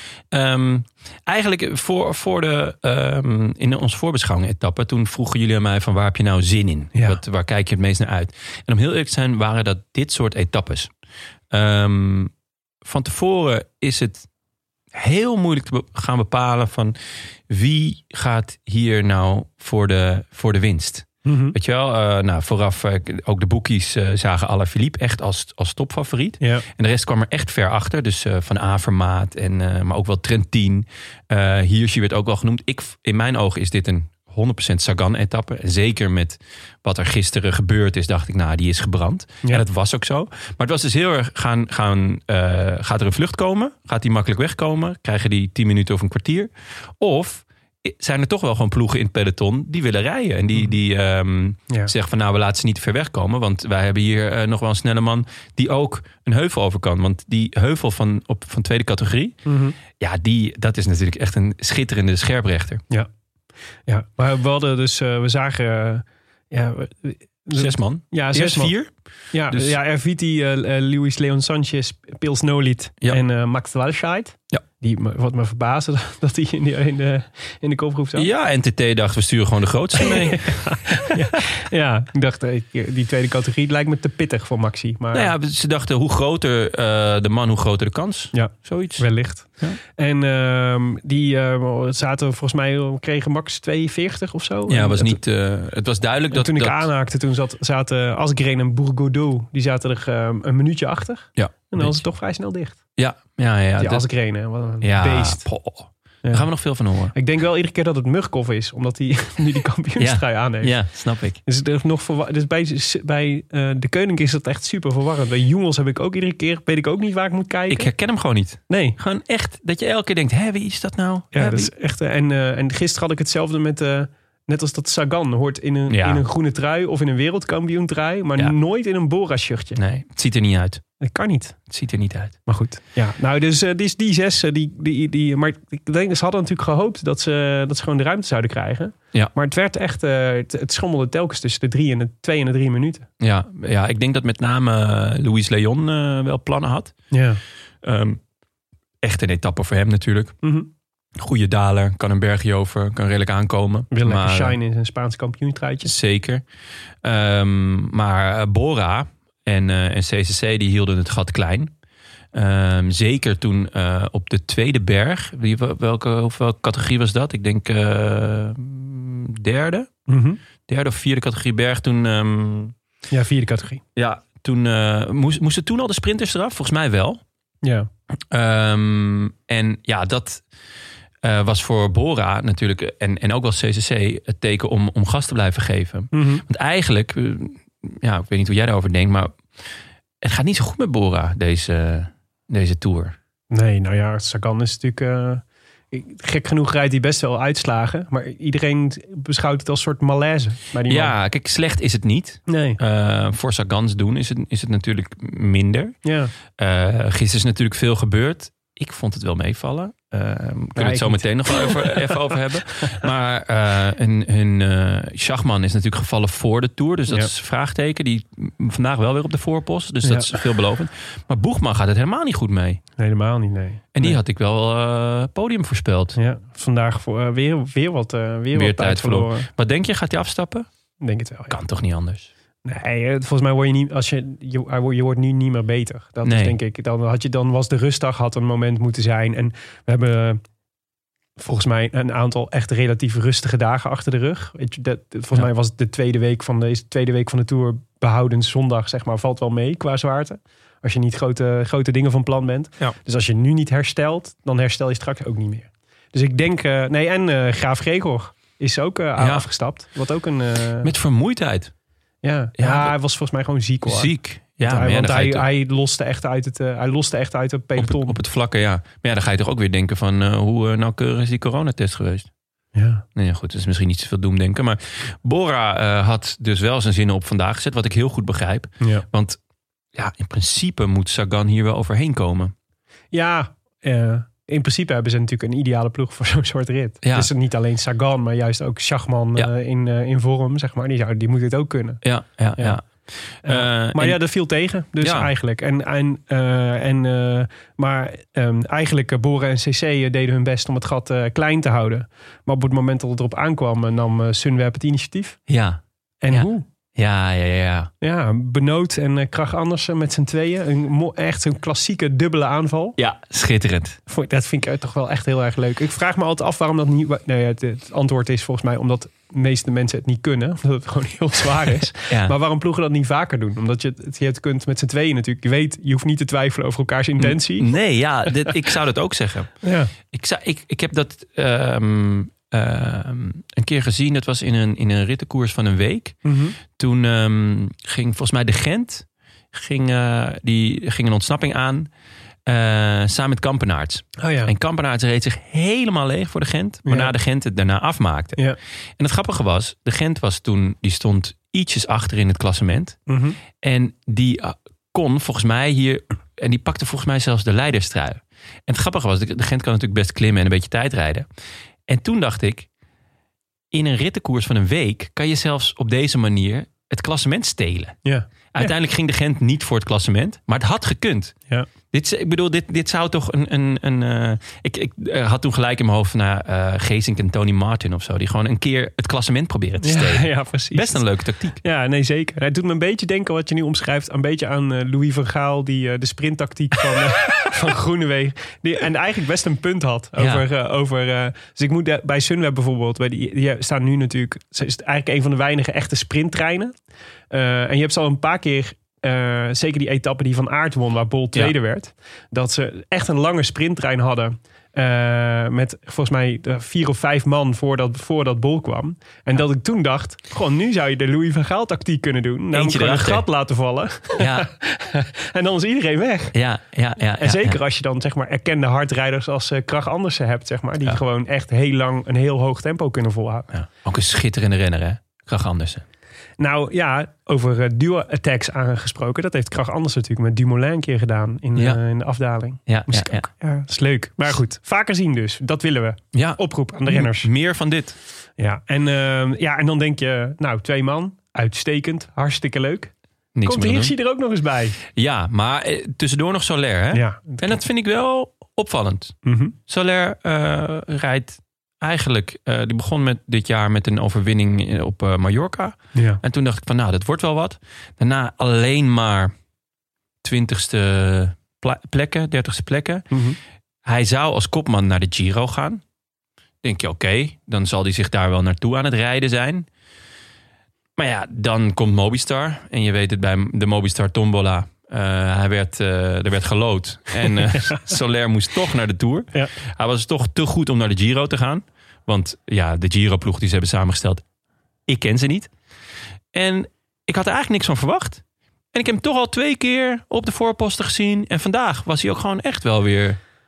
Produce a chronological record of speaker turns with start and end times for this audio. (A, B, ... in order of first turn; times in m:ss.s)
0:00.3-0:10.9 A
0:06.9-0:07.2 B
0:11.5-0:12.3 A
0:12.8-0:14.3 A
0:14.9-0:17.0 A
0:17.5-0:59.4 A
0:21.2-0:21.6 B
0:26.4-0:26.6 B
0:59.4-0:59.8 B
1:00.0-1:02.8 A
1:03.9-1:08.8 B
1:07.5-1:08.9 A
1:09.3-1:18.3 B
1:09.5-1:09.7 A
1:18.1-1:21.4 A
1:20.0-1:25.3 B
1:25.1-1:29.1 A
1:28.3-1:35.2 B
1:34.7-1:36.9 A
1:36.3-1:42.8 B
1:41.4-1:42.0 A
1:43.0-1:44.1 A
1:43.8-1:45.5 B
1:44.8-1:47.2 A
1:46.2-1:46.5 B
1:47.1-1:50.8 B
1:50.0-1:51.4 A
1:51.4-1:57.9 B
1:57.7-2:01.7 A
1:58.7-1:59.0 B
2:01.3-2:09.8 B
2:05.9-2:06.2 A
2:09.8-2:10.8 A
2:11.0-2:11.6 B
2:11.7-2:12.4 A
2:12.5-2:23.1 B
2:23.2-2:27.0 A
2:27.1-2:27.4 B
2:27.8-2:28.2 A
2:29.0-2:30.3 A
2:30.4-2:30.7 B
2:31.2-2:34.6 A
2:33.9-2:35.9 B
2:35.8-2:36.4 A
2:37.0-2:41.7 A
2:42.3-2:49.9 A
2:50.1-2:50.4 B
2:50.7-2:52.7 A
2:53.1-2:53.8 B
2:54.0-2:57.2 A
2:57.6-2:57.9 B
2:58.3-3:00.4 A
3:01.2-3:13.1 A
3:06.1-3:06.4 B
3:13.5-3:21.1 B
3:20.9-3:26.0 A
3:22.5-3:22.8 B
3:26.0-3:26.3 B
3:26.6-3:42.8 A
3:30.8-3:32.2 B
3:40.0-3:40.4 B
3:43.0-3:44.2 B
3:43.9-3:46.2 A
3:46.2-3:49.5 B
3:48.5-3:50.7 A
3:51.0-3:51.6 B
3:51.5-3:52.3 A
3:52.6-4:00.4 B
3:56.2-3:56.6 A
4:01.4-4:20.9 B
4:19.2-4:19.4 A
4:20.8-4:21.7 A
4:22.2-4:28.2 B
4:22.6-4:22.9 A
4:23.8-4:25.5 A
4:27.8-4:32.3 A
4:32.7-4:33.0 B
4:33.2-4:39.4 A
4:39.9-4:42.5 A
4:43.1-4:52.0 B
4:47.0-4:47.3 A
4:52.0-4:54.2 A
4:53.4-5:05.4 B
4:55.0-4:55.3 A
5:05.5-5:07.9 A
5:06.2-5:06.7 B
5:08.0-5:13.0 B
5:13.0-5:14.0 A
5:14.1-5:27.7 B
5:22.1-5:22.3 A
5:27.2-5:29.5 A
5:29.6-5:29.9 B
5:30.1-5:36.2 A
5:36.2-5:36.6 B
5:36.7-5:41.9 A
5:42.4-5:48.4 A
5:44.2-5:44.5 B
5:46.8-5:47.1 B
5:49.0-5:53.0 A
5:53.1-5:53.4 B
5:53.6-6:01.2 A
6:01.9-6:02.7 A
6:03.7-6:08.0 A
6:08.0-6:08.7 B
6:08.5-6:11.3 A
6:11.9-6:21.6 A
6:19.8-6:21.0 B
6:21.6-6:36.7 B
6:30.2-6:30.4 A
6:37.3-6:56.4 B
6:52.5-6:53.2 A
6:54.2-6:54.5 A
6:56.3-6:57.6 A
6:57.2-7:03.5 B
7:03.5-7:05.8 A
7:06.4-7:17.3 B
7:11.5-7:11.8 A
7:12.7-7:13.2 A
7:16.1-7:18.0 A
7:18.4-7:22.9 B
7:23.3-7:23.9 A
7:23.4-7:24.8 B
7:24.9-7:29.2 A
7:26.9-7:27.6 B
7:29.2-7:29.5 B
7:29.7-7:39.3 A
7:35.9-7:36.2 B
7:40.2-7:43.0 A
7:43.1-7:43.4 B
7:43.8-7:45.8 A
7:46.6-7:49.7 A
7:51.0-8:04.2 A
7:57.5-7:57.9 B
8:04.9-8:05.5 A
8:06.3-8:08.2 A
8:08.7-8:13.2 A